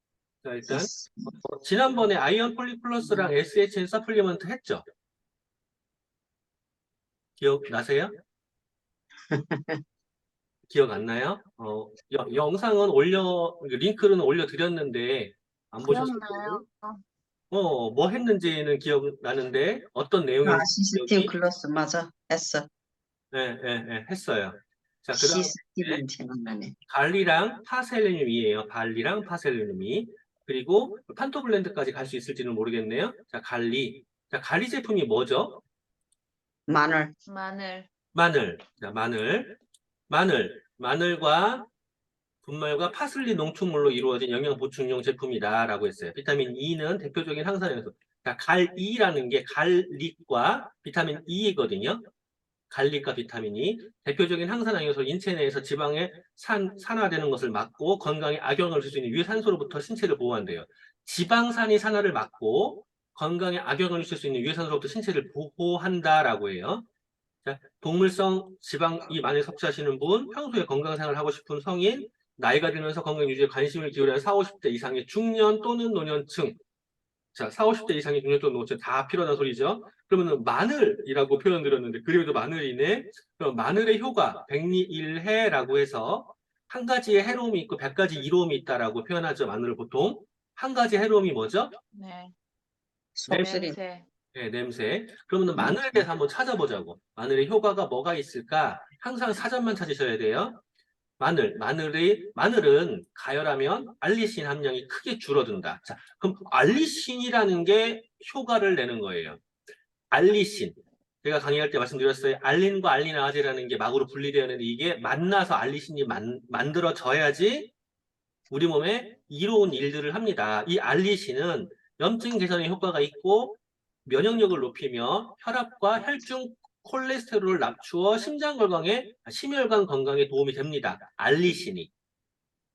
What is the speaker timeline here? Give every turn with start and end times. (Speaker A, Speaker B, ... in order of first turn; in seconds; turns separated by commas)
Speaker A: 0.4-0.9, Speaker B: 0.7-1.3, Speaker A: 1.4-4.8, Speaker B: 3.0-3.3, Speaker A: 7.4-8.1, Speaker B: 9.3-9.8, Speaker A: 10.7-16.6, Speaker C: 15.8-17.0, Speaker A: 17.5-21.3, Speaker B: 20.4-22.7, Speaker A: 23.3-26.0, Speaker B: 25.1-26.7, Speaker A: 26.9-35.6, Speaker B: 36.7-37.1, Speaker C: 37.3-37.9, Speaker A: 38.1-39.6, Speaker A: 40.1-41.7, Speaker A: 42.4-52.0, Speaker A: 52.7-66.8, Speaker A: 67.4-76.6, Speaker A: 77.3-91.8, Speaker C: 91.9-92.3, Speaker B: 93.2-93.8, Speaker C: 93.3-94.0, Speaker A: 94.3-100.6, Speaker B: 95.5-96.0, Speaker A: 101.2-109.4, Speaker A: 110.1-117.7, Speaker A: 118.5-131.9